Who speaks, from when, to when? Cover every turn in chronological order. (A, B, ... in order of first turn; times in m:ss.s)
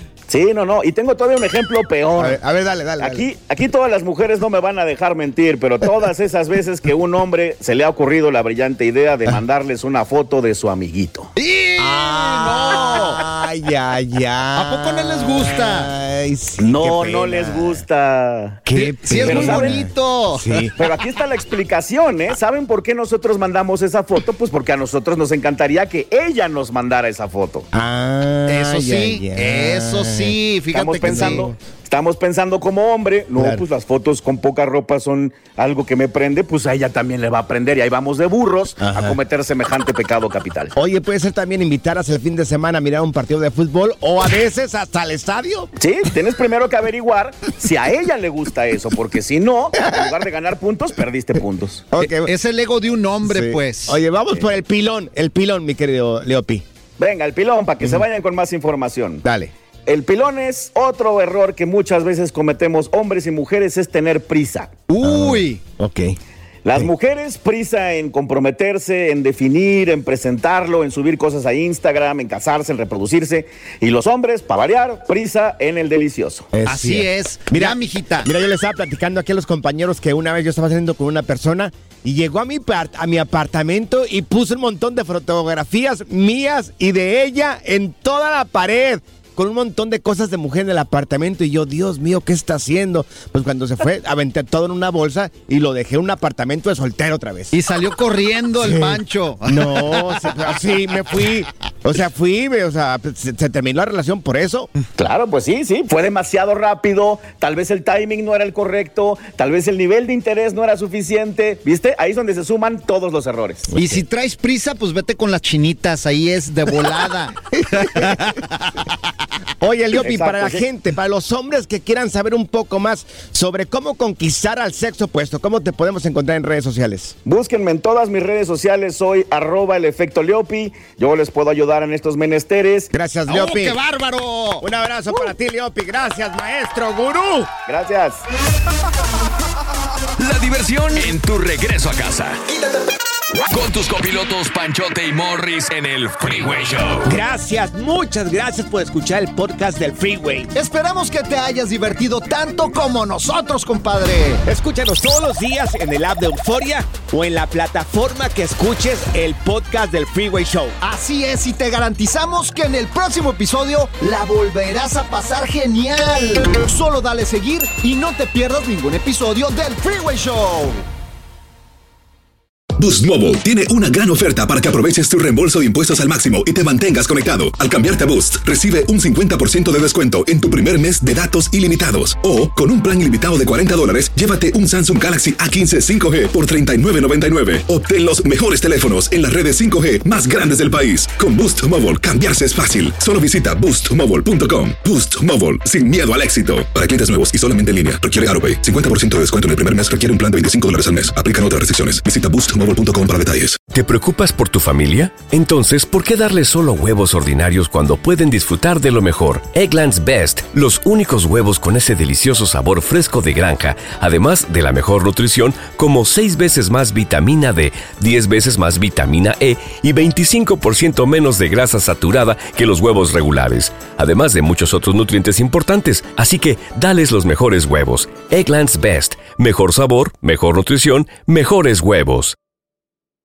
0:00.3-0:02.4 A
0:02.2-0:03.2 B
0:03.0-0:11.3 A
0:11.4-0:13.2 C
0:11.8-0:17.8 B
0:14.6-0:15.9 C
0:16.6-0:19.8 A
0:18.6-0:20.7 B
0:18.7-0:20.6 C
0:20.8-0:27.7 A
0:27.7-0:30.4 B
0:28.5-0:31.4 C
0:30.7-0:40.7 A
0:31.0-0:31.5 B
0:33.4-0:33.6 B
0:38.8-0:39.2 B
0:40.8-0:45.7 B
0:45.8-0:51.9 A
0:51.9-0:52.3 B
0:52.0-0:54.0 C
0:53.2-0:56.6 B
0:57.0-0:59.2 A
0:59.2-0:59.5 B
0:59.8-1:04.7 A
1:04.9-1:05.6 C
1:05.0-1:06.2 B
1:06.6-1:16.5 A
1:16.5-1:37.6 B
1:16.6-1:18.3 C
1:37.5-1:40.6 C
1:38.6-1:44.7 B
1:45.0-1:53.7 A
1:53.7-1:54.0 B
1:53.7-1:58.9 C
1:57.5-1:58.3 B
1:59.6-2:07.1 B
2:00.0-2:00.6 A
2:07.2-2:12.9 A
2:12.9-2:13.8 B
2:13.3-2:14.6 C
2:14.6-2:17.5 B
2:17.7-2:18.2 A
2:20.2-2:22.4 D
2:23.5-2:27.2 D
2:27.0-2:30.5 B
2:30.5-2:34.4 C
2:34.4-2:40.8 B
2:40.8-2:50.8 C
2:52.8-3:23.6 E
3:23.7-3:52.4 F